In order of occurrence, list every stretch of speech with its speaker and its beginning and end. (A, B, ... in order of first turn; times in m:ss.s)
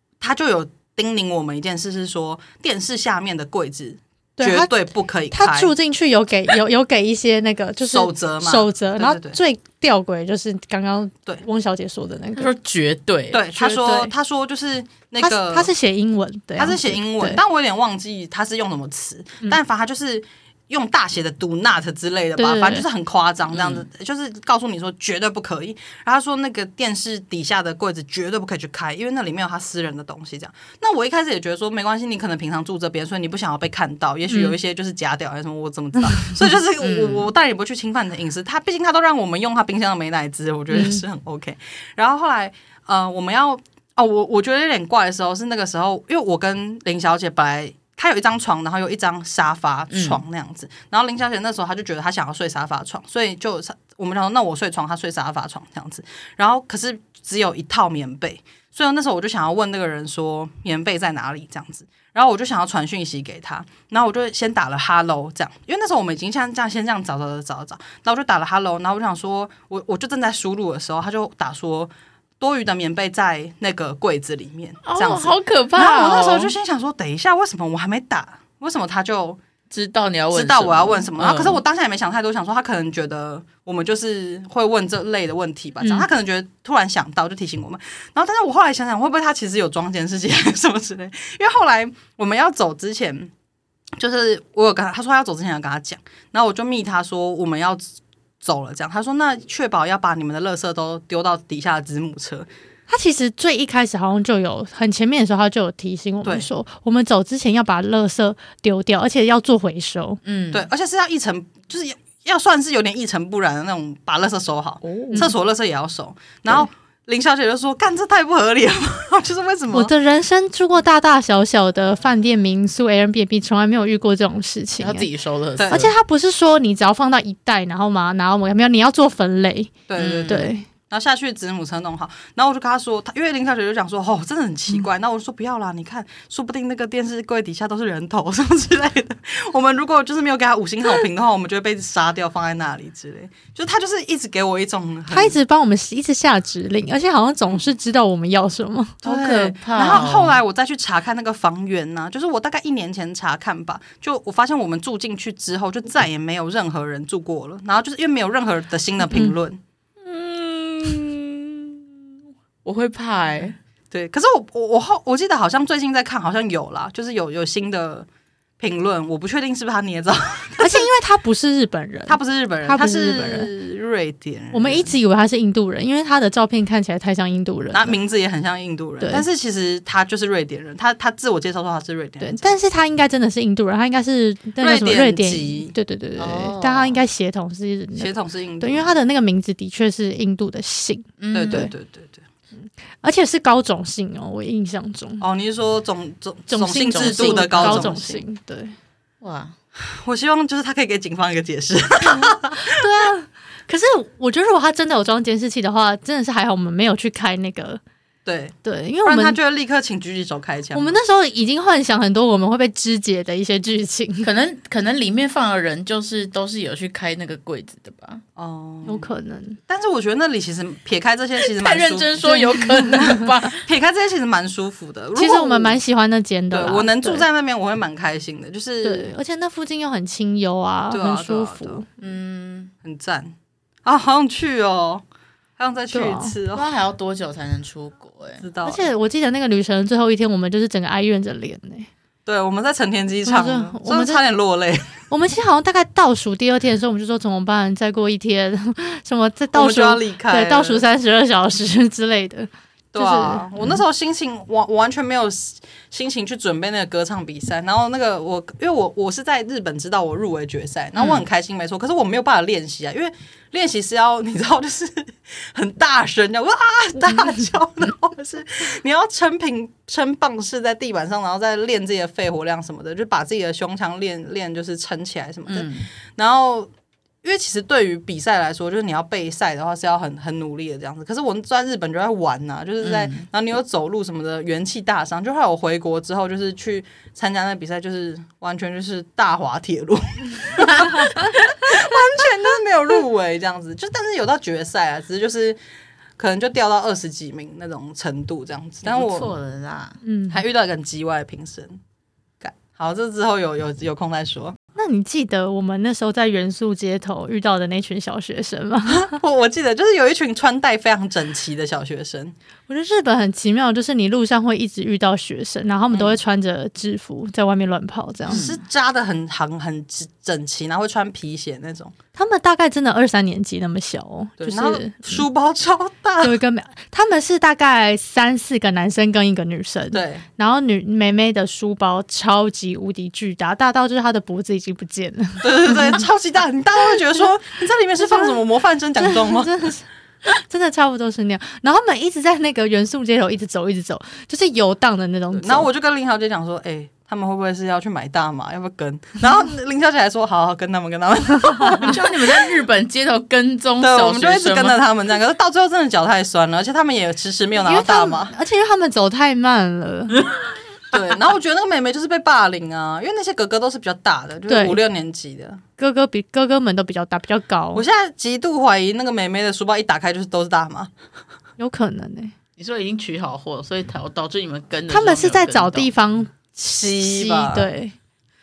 0:00.2-0:05.7 A
0:04.4-0:04.7 B
0:05.3-0:12.5 B
0:07.8-0:09.4 A
0:12.3-0:13.4 C
0:13.3-0:15.7 A
0:13.5-0:14.1 B
0:15.2-0:17.4 B
0:16.6-1:19.4 A
0:22.4-0:22.9 B
0:23.5-0:23.8 C
0:34.3-0:34.6 B
0:36.8-0:37.3 C
0:40.7-0:41.0 B
0:49.9-0:50.2 C
1:14.8-1:16.5 C
1:19.7-1:21.6 C
1:20.3-1:33.3 A
1:25.8-1:26.1 B
1:34.0-1:42.5 A
1:42.9-1:50.2 B
1:50.2-1:50.7 C
1:50.5-1:59.9 A
1:54.8-1:55.3 C
1:59.7-2:05.1 B
2:04.8-2:05.9 C
2:05.6-2:05.9 A
2:05.7-2:09.8 B
2:09.9-2:25.4 A
2:10.0-2:10.5 C
2:10.3-2:10.6 B
2:25.1-2:29.0 B
2:29.0-2:39.6 A
2:29.0-2:30.4 C
2:40.0-2:41.8 C
2:42.6-2:43.6 C
2:43.9-2:48.1 A
2:48.6-2:50.9 A
2:50.6-2:53.5 B
2:52.1-2:55.0 A
2:54.5-2:58.0 B
2:57.7-3:02.6 A
3:02.2-3:11.7 B
3:04.6-3:05.7 A
3:06.2-3:07.0 C
3:08.0-3:09.0 A
3:11.2-3:11.7 C
3:11.3-3:12.2 A
3:13.0-3:15.2 B
3:15.2-3:18.2 A
3:16.5-3:18.7 B
3:16.8-3:17.9 C
3:19.2-3:19.5 C
3:19.8-3:22.8 A
3:22.6-3:27.8 B
3:28.2-3:31.0 A
3:28.6-3:29.4 B
3:30.7-3:34.3 B
3:34.2-3:38.2 C
3:38.4-3:39.1 A
3:38.9-3:39.6 B
3:39.7-3:42.6 A
3:41.4-3:43.6 C
3:42.2-3:43.2 B
3:43.6-3:45.8 A
3:45.2-3:47.2 B
3:46.5-3:49.1 A
3:48.8-3:51.9 B
3:50.9-3:51.8 A
3:52.0-3:52.7 C
3:52.8-3:53.3 A
3:53.8-3:55.0 A
3:55.6-3:56.7 A
3:55.9-3:56.4 B
3:56.5-3:58.4 C
3:58.4-3:58.8 A
3:58.6-4:01.9 B
4:02.3-4:05.0 A
4:03.2-4:04.2 B
4:05.1-4:13.5 B
4:09.5-4:10.9 A
4:12.9-4:36.7 A
4:21.0-4:21.2 C
4:35.5-4:35.9 C
4:37.2-4:55.6 A
4:42.8-4:43.3 C
4:56.2-4:59.4 A
4:58.8-5:00.0 C
5:00.0-5:00.4 B
5:00.3-5:01.8 A
5:02.4-5:04.6 A
5:04.8-5:09.2 B
5:08.9-5:12.3 A
5:12.7-5:18.5 B
5:15.9-5:16.2 A
5:18.3-5:21.9 A
5:18.3-5:18.6 C
5:22.2-5:25.3 B
5:24.4-5:26.4 A
5:26.2-5:36.0 B
5:29.9-5:30.3 A
5:35.4-5:39.5 A
5:38.0-5:38.4 B
5:39.0-5:45.7 B
5:45.3-5:52.6 A
5:51.8-5:54.8 C
5:53.8-5:58.4 A
5:57.6-6:00.2 B
6:00.9-6:05.6 A
6:04.5-6:04.8 B
6:05.8-6:07.8 B
6:07.7-6:10.9 A
6:11.6-6:12.3 B
6:12.6-6:15.9 C
6:14.9-6:18.0 B
6:16.8-6:17.7 A